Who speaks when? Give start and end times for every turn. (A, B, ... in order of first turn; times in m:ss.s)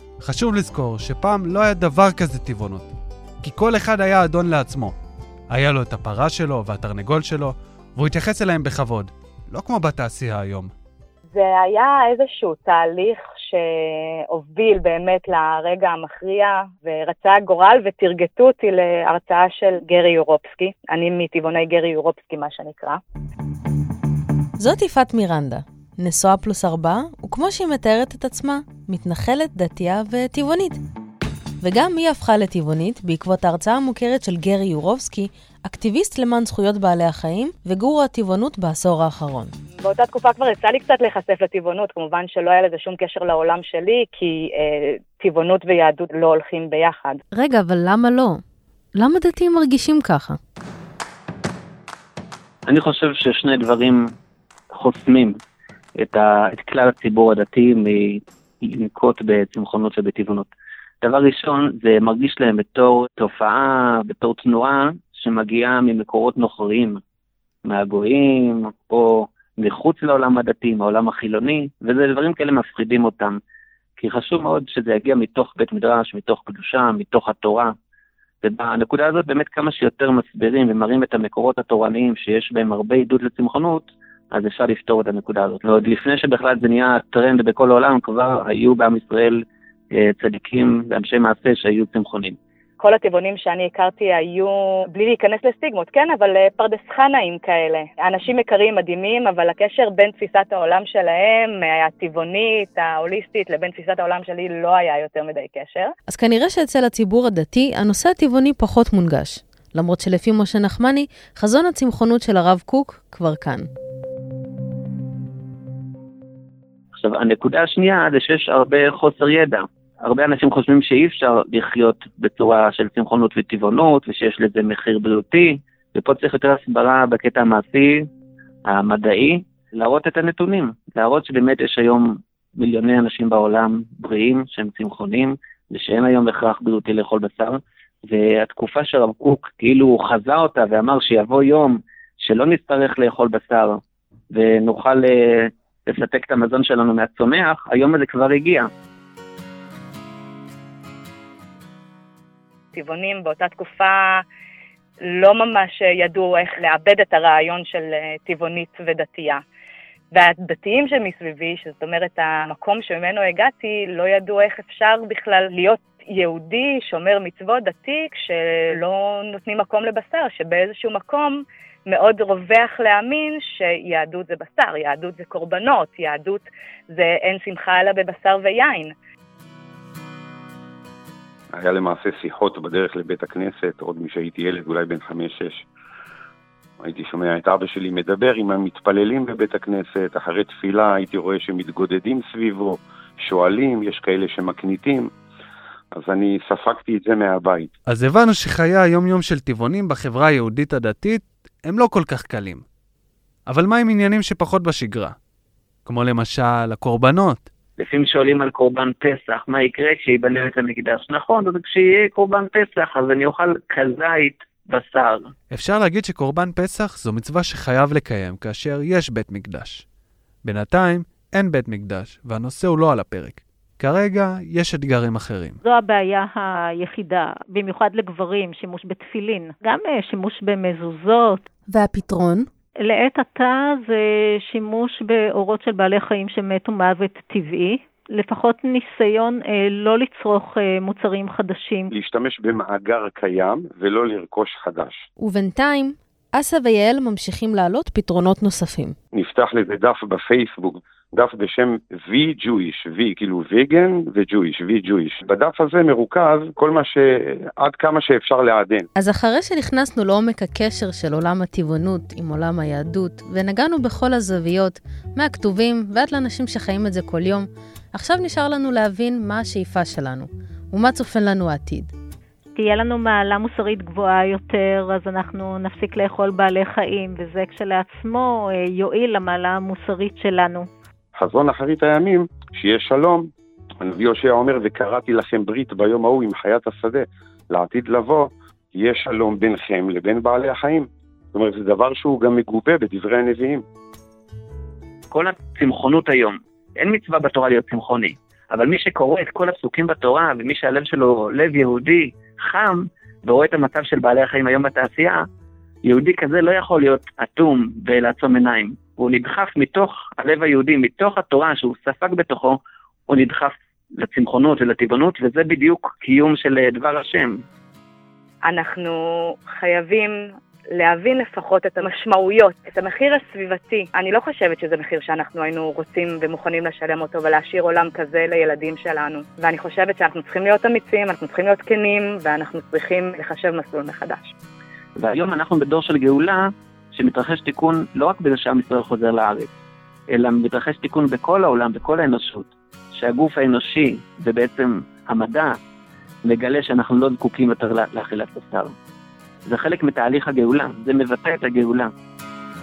0:00.2-0:04.9 A
0:05.5-0:10.7 A
0:11.3-0:23.0 B
0:24.6-0:30.8 C
0:31.6-0:39.5 C
0:39.8-0:47.2 B
0:47.3-0:48.4 C
0:49.0-0:50.4 C
0:52.6-0:54.1 D
0:54.7-0:55.4 D
0:56.0-1:00.5 D
1:01.0-1:07.0 D
1:07.6-1:13.4 D
1:14.0-1:17.7 D
1:18.4-1:32.4 D
1:32.8-1:45.9 B
1:46.1-1:53.7 C
1:57.0-2:08.1 D
2:08.7-2:28.7 D
2:32.7-2:34.2 B
2:35.1-2:39.4 B
2:40.1-2:58.9 B
3:01.5-3:05.6 E
3:06.8-3:15.1 E
3:16.0-3:17.7 E
3:17.9-3:22.6 A
3:23.5-3:25.1 A
3:25.8-3:27.5 A
3:27.8-3:35.2 D
3:35.5-3:39.8 A
3:40.4-3:45.6 A
3:45.6-3:51.4 F
3:51.7-3:52.5 C
3:52.8-4:01.9 F
4:01.9-4:05.0 E
4:05.2-4:08.9 C
4:09.1-4:18.9 E
4:19.0-4:31.9 C
4:32.5-4:40.7 F
4:41.2-4:43.3 E
4:43.8-4:53.6 E
4:55.1-5:05.2 D
5:05.8-5:17.4 D
5:18.4-5:20.2 B
5:20.8-5:34.3 B
5:35.0-5:39.5 D
5:40.1-5:45.5 D
5:46.2-5:48.7 D
5:49.4-5:51.9 D